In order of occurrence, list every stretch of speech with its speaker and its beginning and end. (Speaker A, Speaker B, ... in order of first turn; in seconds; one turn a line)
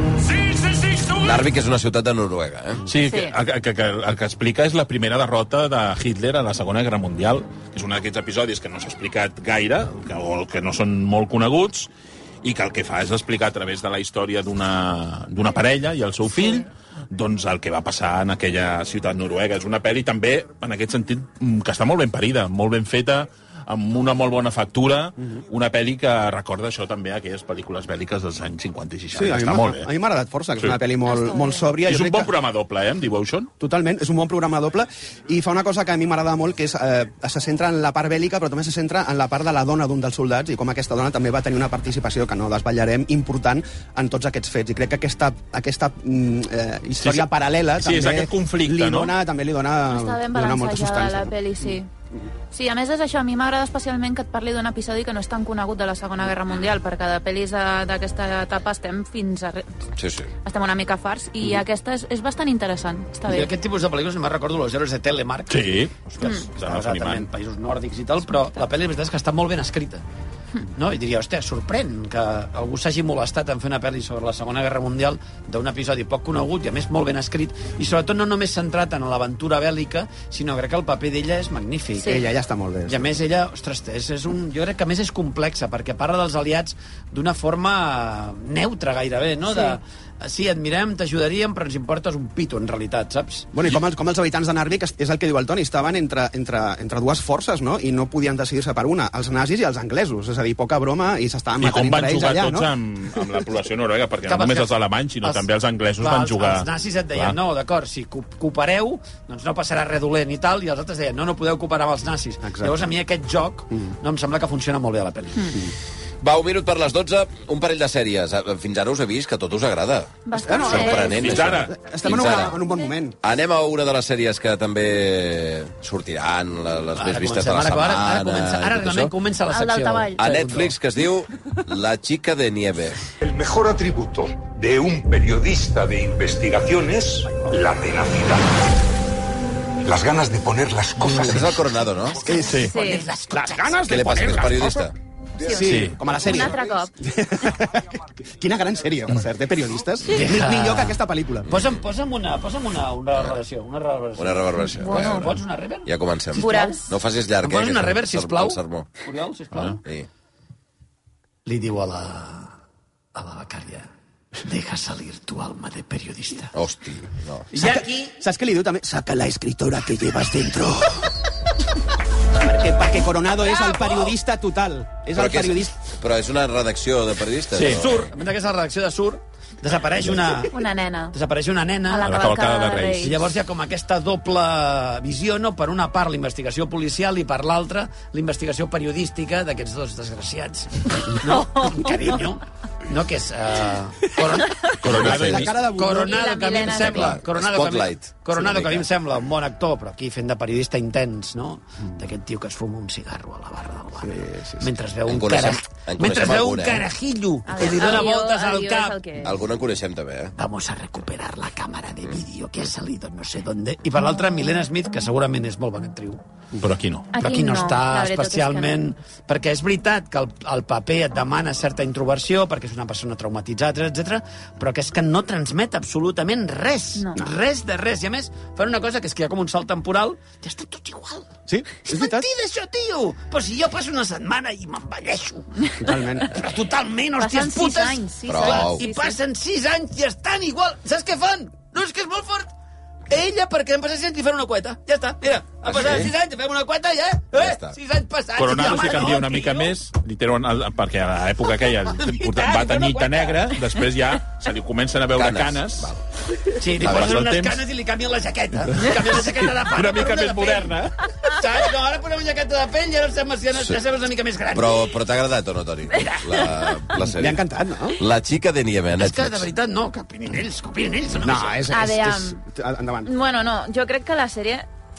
Speaker A: 1.2-2.8
Speaker B: 2.9-11.9
Speaker C: 3.0-3.3
Speaker B: 12.4-29.9
Speaker D: 29.1-32.3
Speaker C: 31.0-31.7
Speaker B: 31.9-33.5
Speaker D: 33.6-51.6
Speaker B: 47.0-47.2
Speaker B: 47.8-49.1
Speaker C: 49.9-51.9
Speaker C: 52.5-59.7
Speaker A: 60.0-60.3
Speaker C: 60.4-63.5
Speaker E: 63.2-65.7
Speaker B: 65.5-67.3
Speaker E: 66.2-70.0
Speaker E: 70.7-82.2
Speaker C: 82.0-82.2
Speaker D: 82.0-83.2
Speaker E: 82.9-93.5
Speaker C: 89.5-89.8
Speaker D: 93.5-102.7
Speaker B: 101.6-107.4
Speaker E: 104.2-105.4
Speaker E: 106.0-115.7
Speaker D: 112.4-112.9
Speaker A: 116.2-122.6
Speaker C: 120.2-121.2
Speaker D: 120.4-123.2
Speaker B: 120.8-121.8
Speaker C: 122.2-122.9
Speaker A: 123.2-129.1
Speaker E: 126.9-130.8
Speaker C: 129.5-130.2
Speaker A: 130.2-133.0
Speaker F: 133.2-138.6
Speaker F: 139.8-141.7
Speaker A: 141.2-142.3
Speaker D: 142.2-142.7
Speaker E: 142.3-144.6
Speaker B: 142.4-142.7
Speaker C: 142.6-143.0
Speaker D: 143.3-151.5
Speaker A: 143.8-144.9
Speaker C: 145.4-146.9
Speaker B: 145.6-146.0
Speaker E: 150.1-156.8
Speaker A: 154.2-155.2
Speaker C: 154.6-155.3
Speaker B: 154.9-155.3
Speaker A: 155.8-158.9
Speaker C: 156.3-156.9
Speaker E: 157.4-159.8
Speaker E: 161.4-162.5
Speaker E: 163.1-166.5
Speaker A: 166.5-167.5
Speaker E: 167.5-168.1
Speaker D: 167.6-171.1
Speaker D: 172.3-175.7
Speaker A: 175.1-178.1
Speaker B: 177.5-178.0
Speaker E: 177.6-182.1
Speaker C: 180.5-181.2
Speaker C: 181.8-183.2
Speaker B: 182.0-183.1
Speaker E: 183.0-209.1
Speaker C: 191.2-192.0
Speaker C: 194.4-194.8
Speaker B: 194.8-195.6
Speaker D: 194.8-196.6
Speaker C: 195.9-197.2
Speaker A: 196.8-198.9
Speaker D: 204.0-204.7
Speaker A: 205.1-206.9
Speaker C: 207.4-209.3
Speaker A: 207.7-208.1
Speaker A: 209.2-210.3
Speaker E: 210.4-216.2
Speaker B: 216.6-217.1
Speaker C: 217.1-218.8
Speaker E: 217.2-231.3
Speaker C: 226.9-227.2
Speaker D: 231.5-232.3
Speaker E: 231.8-235.5
Speaker C: 235.6-235.9
Speaker D: 235.8-236.3
Speaker E: 236.3-242.5
Speaker C: 237.2-239.2
Speaker A: 238.3-238.8
Speaker E: 243.1-249.7
Speaker A: 245.6-246.1
Speaker A: 247.3-247.8
Speaker B: 248.3-255.9
Speaker E: 251.9-253.5
Speaker A: 255.1-256.0
Speaker E: 256.5-264.9
Speaker B: 256.7-257.6
Speaker A: 256.8-257.2
Speaker B: 258.8-261.1
Speaker A: 264.5-267.4
Speaker E: 265.9-266.6
Speaker D: 267.1-268.0
Speaker A: 267.9-269.5
Speaker E: 269.0-271.7
Speaker D: 271.2-273.1
Speaker C: 271.7-272.4
Speaker C: 273.0-274.7